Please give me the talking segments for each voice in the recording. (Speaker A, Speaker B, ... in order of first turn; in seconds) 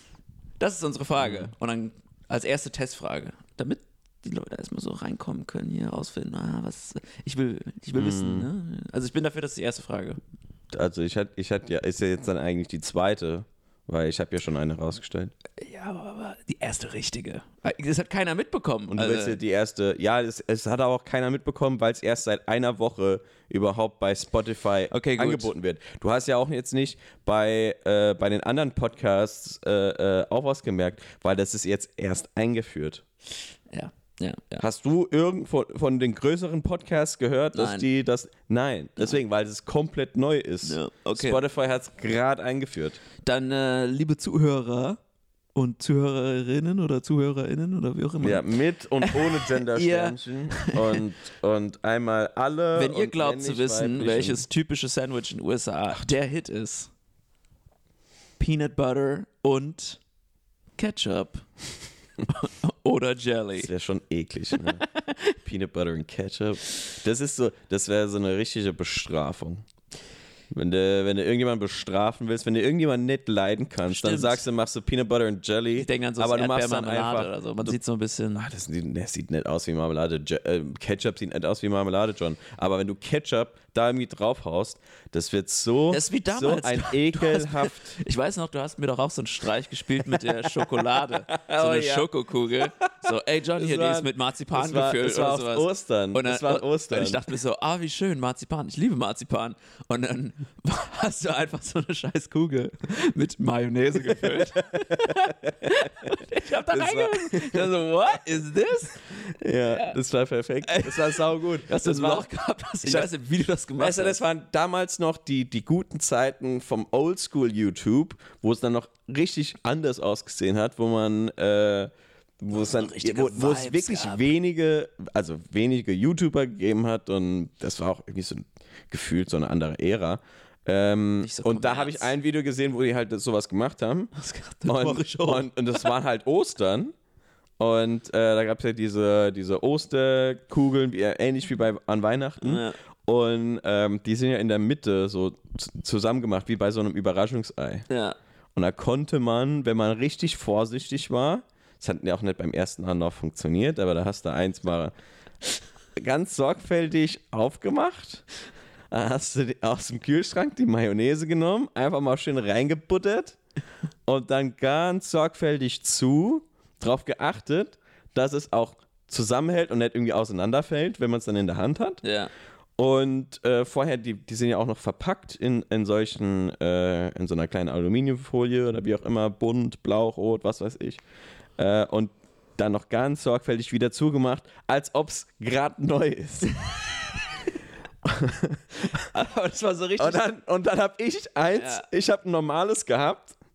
Speaker A: 0.6-10.2, 15.6-19.4, 24.9-25.5, 33.7-34.7, 37.5-37.9, 40.6-41.4, 43.2-45.0, 45.5-48.5, 49.0-51.0, 52.7-56.9, 58.4-60.0, 60.8-61.5, 62.2-63.7, 64.8-65.4, 73.9-74.4, 75.8-78.5, 85.9-110.0, 110.6-114.2, 122.6-124.3, 131.2-132.1, 134.2-135.9, 142.4-142.8, 147.9-148.2, 172.0-172.3, 189.0-190.3, 191.6-191.9
Speaker B: 1.2-1.5, 8.0-8.5, 10.7-15.3, 18.9-33.0, 34.6-43.0, 48.2-54.5, 63.6-64.8, 65.4-69.7, 70.5-77.8, 78.4-88.0, 90.1-92.1, 92.6-97.2, 104.1-106.1, 106.7-108.2, 109.3-112.3, 112.8-113.1, 113.8-134.1, 134.7-136.9, 137.6-147.8, 148.6-154.9, 156.0-158.2, 158.9-163.4, 164.1-172.0, 172.8-181.0, 181.6-186.6, 188.0-189.1, 190.0-193.3